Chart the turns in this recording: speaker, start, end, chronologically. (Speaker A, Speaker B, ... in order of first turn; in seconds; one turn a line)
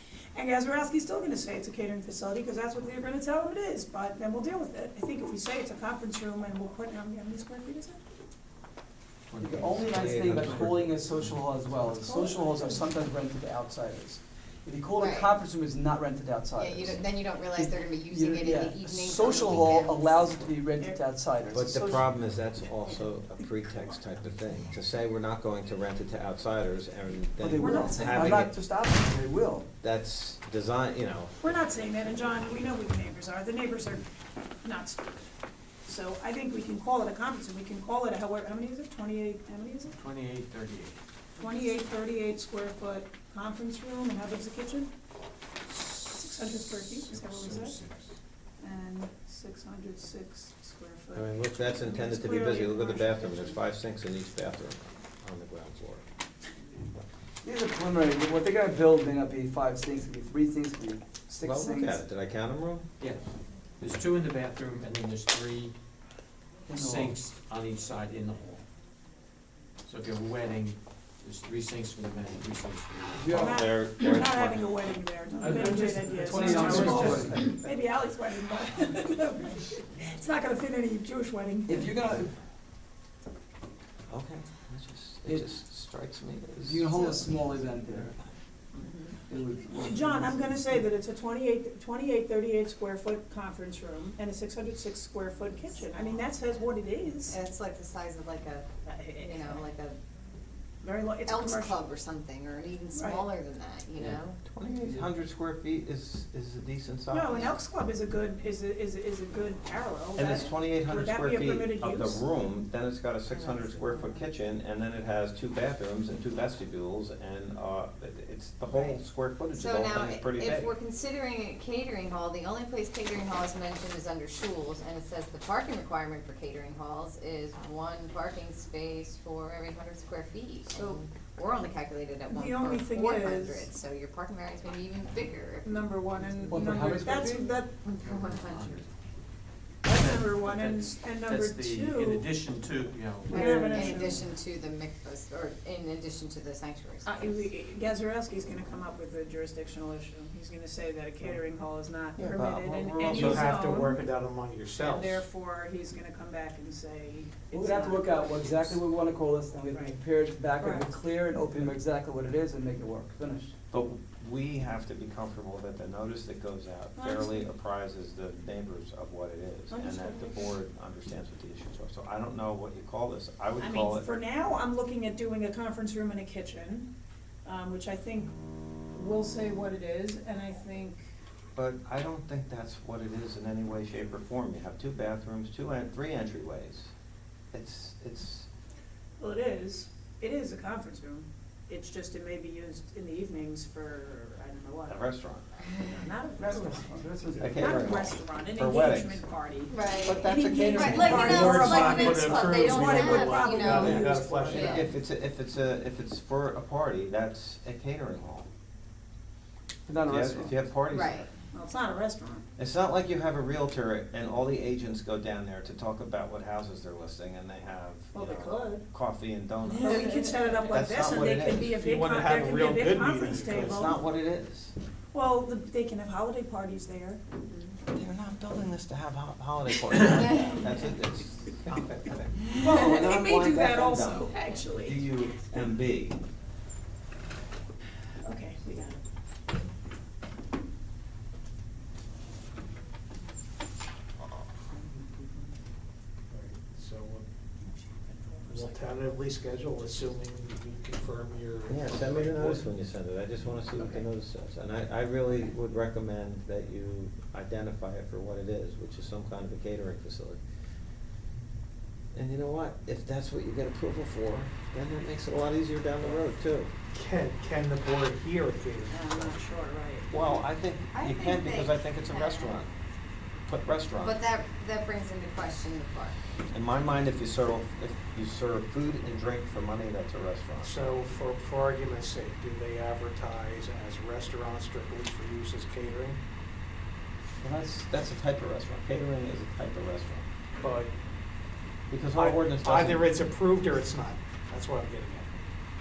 Speaker A: 0.3-8.1
Speaker B: 9.3-11.3
Speaker C: 9.4-22.0
Speaker D: 9.8-10.9
Speaker A: 11.8-12.8
Speaker E: 15.0-15.3
Speaker E: 16.5-20.4
Speaker A: 20.8-22.1
Speaker D: 21.5-28.5
Speaker C: 27.4-29.7
Speaker A: 27.6-28.4
Speaker D: 29.8-31.4
Speaker A: 31.4-34.0
Speaker A: 34.6-35.1
Speaker A: 35.8-40.0
Speaker B: 39.9-41.0
Speaker A: 41.4-44.9
Speaker A: 46.1-47.8
Speaker B: 47.0-48.1
Speaker A: 48.6-53.6
Speaker D: 51.1-56.0
Speaker C: 57.4-62.0
Speaker D: 61.4-62.9
Speaker B: 63.8-65.7
Speaker C: 66.7-67.1
Speaker B: 66.7-68.6
Speaker B: 69.8-73.4
Speaker C: 73.1-73.6
Speaker D: 73.3-74.7
Speaker A: 73.3-81.9
Speaker B: 75.4-77.3
Speaker C: 75.4-77.6
Speaker C: 81.7-82.3
Speaker D: 84.1-87.0
Speaker C: 86.6-88.2
Speaker E: 88.7-89.1
Speaker C: 89.3-90.7
Speaker A: 89.8-97.4
Speaker E: 95.7-96.6
Speaker E: 97.3-100.0
Speaker A: 98.8-99.7
Speaker A: 100.8-101.8
Speaker E: 101.2-104.4
Speaker A: 102.9-103.3
Speaker D: 104.0-107.5
Speaker C: 104.8-105.1
Speaker A: 107.1-112.2
Speaker E: 107.3-107.5
Speaker D: 110.2-120.7
Speaker E: 113.3-114.2
Speaker E: 118.7-119.0
Speaker E: 119.5-136.6
Speaker A: 130.7-131.0
Speaker A: 132.2-133.7
Speaker A: 135.6-137.7
Speaker C: 136.5-137.6
Speaker E: 137.8-138.8
Speaker B: 138.0-138.9
Speaker A: 139.8-142.3
Speaker B: 139.8-144.2
Speaker A: 143.3-144.3
Speaker E: 143.3-147.4
Speaker A: 147.0-154.1
Speaker D: 152.2-153.6
Speaker F: 153.1-155.2
Speaker A: 154.8-158.8
Speaker C: 157.5-163.5
Speaker A: 159.7-160.0
Speaker A: 160.6-160.9
Speaker D: 163.7-174.1
Speaker A: 166.9-167.5
Speaker A: 169.7-170.4
Speaker A: 173.6-176.9
Speaker A: 177.4-178.3
Speaker A: 178.9-181.1
Speaker D: 181.6-186.9
Speaker D: 187.5-188.5
Speaker A: 189.2-195.0
Speaker D: 194.9-195.4
Speaker A: 195.8-204.8
Speaker C: 196.4-197.6
Speaker D: 197.4-199.2
Speaker E: 199.7-204.9
Speaker D: 200.1-201.4
Speaker C: 200.2-201.8
Speaker F: 201.0-204.8
Speaker D: 203.7-208.5
Speaker C: 209.9-210.5
Speaker D: 210.0-211.3
Speaker E: 210.9-211.3
Speaker A: 211.5-212.4
Speaker D: 212.6-220.2
Speaker A: 218.1-218.8
Speaker A: 219.7-224.0
Speaker E: 219.8-220.6
Speaker D: 220.7-221.7
Speaker F: 221.7-223.8
Speaker D: 223.5-224.7
Speaker A: 225.1-227.2
Speaker E: 227.5-227.8
Speaker D: 227.9-236.2
Speaker A: 232.5-235.7
Speaker A: 238.2-239.0
Speaker F: 246.3-247.2
Speaker A: 247.6-249.2
Speaker F: 248.4-252.6
Speaker D: 251.7-260.4
Speaker D: 262.1-266.7
Speaker F: 266.9-269.4
Speaker A: 268.9-270.1
Speaker D: 270.1-272.7
Speaker E: 270.9-272.6
Speaker D: 273.4-274.2
Speaker E: 274.0-276.2
Speaker D: 276.5-280.8
Speaker F: 280.6-286.2
Speaker D: 287.4-290.2
Speaker F: 290.6-290.9
Speaker D: 291.9-293.1
Speaker F: 292.1-295.5